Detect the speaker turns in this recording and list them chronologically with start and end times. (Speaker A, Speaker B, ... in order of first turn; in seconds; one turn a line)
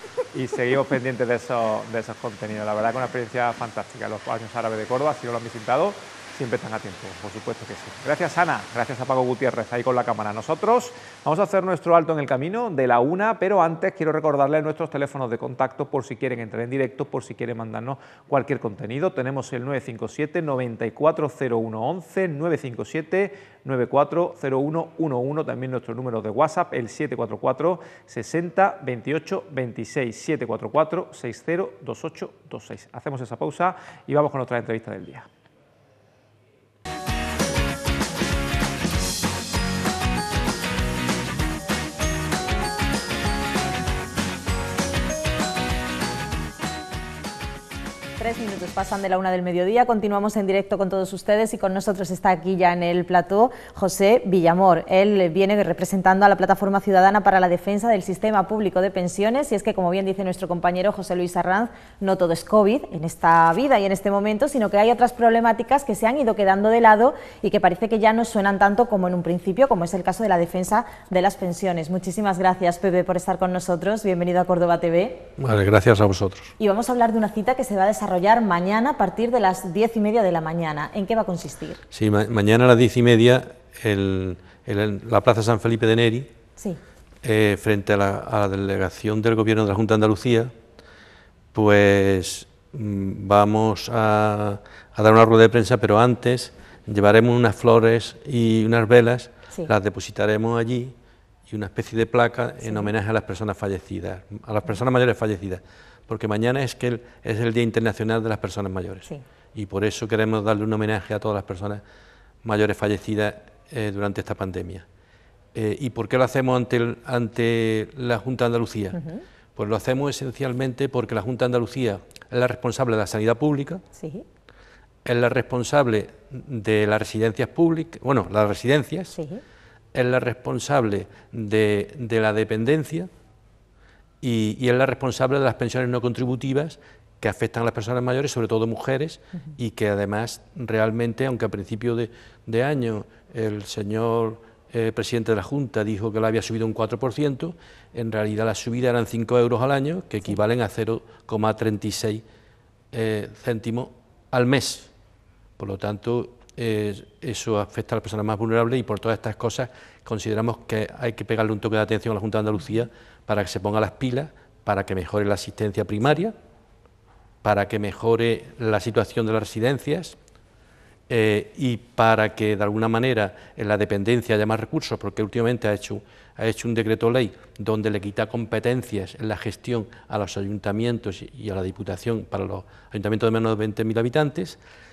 Speaker A: 0.3-35.3
Speaker B: 48.2-75.2
Speaker C: 75.4-76.5
Speaker B: 76.6-81.8
Speaker C: 81.9-86.3
Speaker C: 87.2-90.5
Speaker C: 91.5-100.9
Speaker C: 101.5-111.8
Speaker B: 102.6-102.9
Speaker C: 112.4-114.8
Speaker C: 115.5-119.0
Speaker B: 118.9-119.2
Speaker C: 119.5-123.8
Speaker B: 123.9-124.2
Speaker C: 125.0-129.2
Speaker B: 129.1-129.4
Speaker C: 129.9-133.1
Speaker C: 134.2-152.2
Speaker C: 152.9-154.9
Speaker C: 155.6-166.3
Speaker C: 167.4-170.2
Speaker C: 171.1-184.6